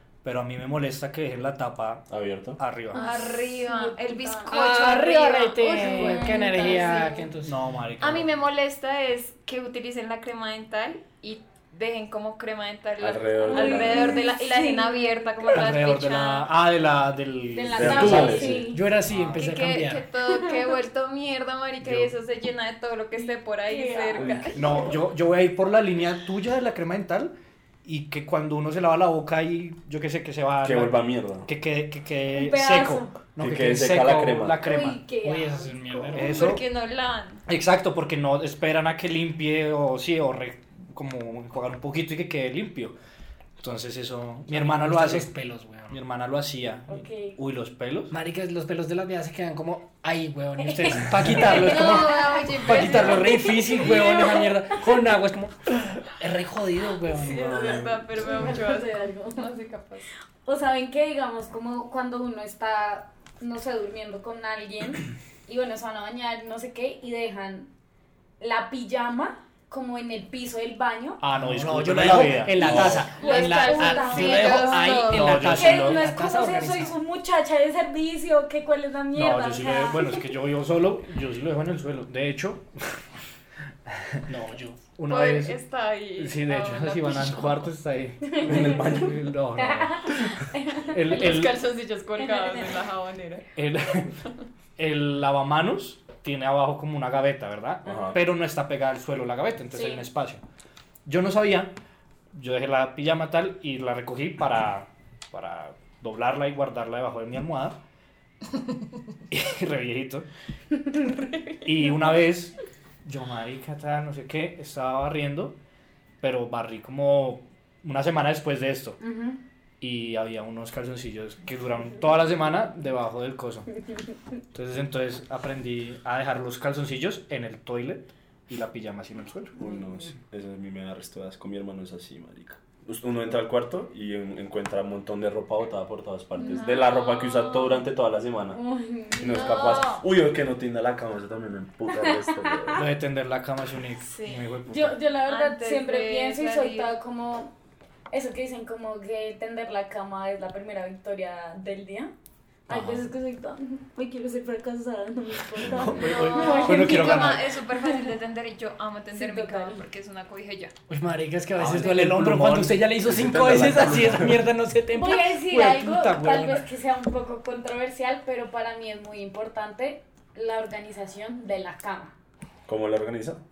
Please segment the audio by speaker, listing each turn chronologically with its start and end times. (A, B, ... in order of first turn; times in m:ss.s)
0:00.2-0:02.1 A
0:02.1-0:02.6 B
0:02.6-0:03.0 A
0:02.9-0:04.8 C
0:02.9-0:07.2 D
0:04.5-0:07.6 E
0:05.6-0:07.2 C
0:07.4-0:08.3 A
0:08.0-0:16.5 D
0:13.0-0:14.2 B
0:13.4-0:15.4 C
0:15.5-0:19.4 A
0:17.5-0:18.8 C
0:17.7-0:18.7 B
0:18.7-0:20.0 E
0:19.4-0:24.9 D
0:20.3-0:20.6 C
0:21.8-0:22.1 A
0:23.2-0:24.9 C
0:24.2-0:24.4 B
0:24.5-0:27.3 A
0:27.8-0:35.0 A
0:30.6-0:31.5 B
0:32.3-0:33.2 C
0:33.4-0:34.6 B
0:34.6-0:36.4 C
0:35.2-0:36.4 E
0:36.1-0:36.6 A
0:36.1-0:37.4 D
0:37.5-0:42.9 A
0:43.6-0:45.3 A
0:44.5-0:46.0 E
0:45.9-0:48.1 A
0:46.9-0:47.4 C
0:48.1-0:57.9 E
0:50.6-0:54.5 C
0:51.4-0:54.3 D
0:57.1-1:00.1 D
0:58.2-0:59.5 C
1:00.4-1:07.7 C
1:08.4-1:11.2 C
1:11.2-1:13.1 A
1:11.4-1:17.0 E
1:12.6-1:20.2 C
1:12.6-1:13.0 B
1:13.0-1:15.4 D
1:15.0-1:16.0 A
1:19.1-1:23.0 A
1:23.9-1:24.2 A
1:24.3-1:24.9 E
1:25.0-1:25.6 A
1:25.1-1:27.7 D
1:26.2-1:31.6 A
1:28.2-1:29.0 C
1:28.4-1:29.2 B
1:29.6-1:30.9 C
1:31.0-1:33.4 D
1:32.2-1:32.6 C
1:33.6-1:34.1 A
1:34.8-1:40.4 A
1:37.8-1:38.2 B
1:39.7-1:40.0 C
1:41.0-1:41.7 A
1:42.3-1:47.8 A
1:49.3-1:50.3 A
1:51.0-1:51.6 D
1:51.6-1:55.6 A
1:56.2-1:59.0 A
1:59.0-1:59.4 C
1:59.8-2:03.7 A
2:04.5-2:09.7 A
2:09.6-2:18.6 B
2:16.4-2:17.8 D
2:18.5-2:19.8 C
2:19.2-2:20.0 D
2:19.2-2:22.8 B
2:22.0-2:22.8 C
2:22.7-2:25.0 A
2:24.0-2:24.5 D
2:24.7-2:27.5 C
2:25.2-2:26.9 D
2:28.1-2:32.1 C
2:32.7-2:38.0 C
2:32.7-2:33.0 A
2:35.6-2:36.1 B
2:35.7-2:37.5 A
2:35.9-2:40.7 D
2:39.1-2:39.8 C
2:40.9-2:46.7 E
2:41.6-2:43.0 A
2:43.0-2:44.4 B
2:43.5-2:44.3 A
2:44.9-2:52.1 C
2:52.6-2:53.4 B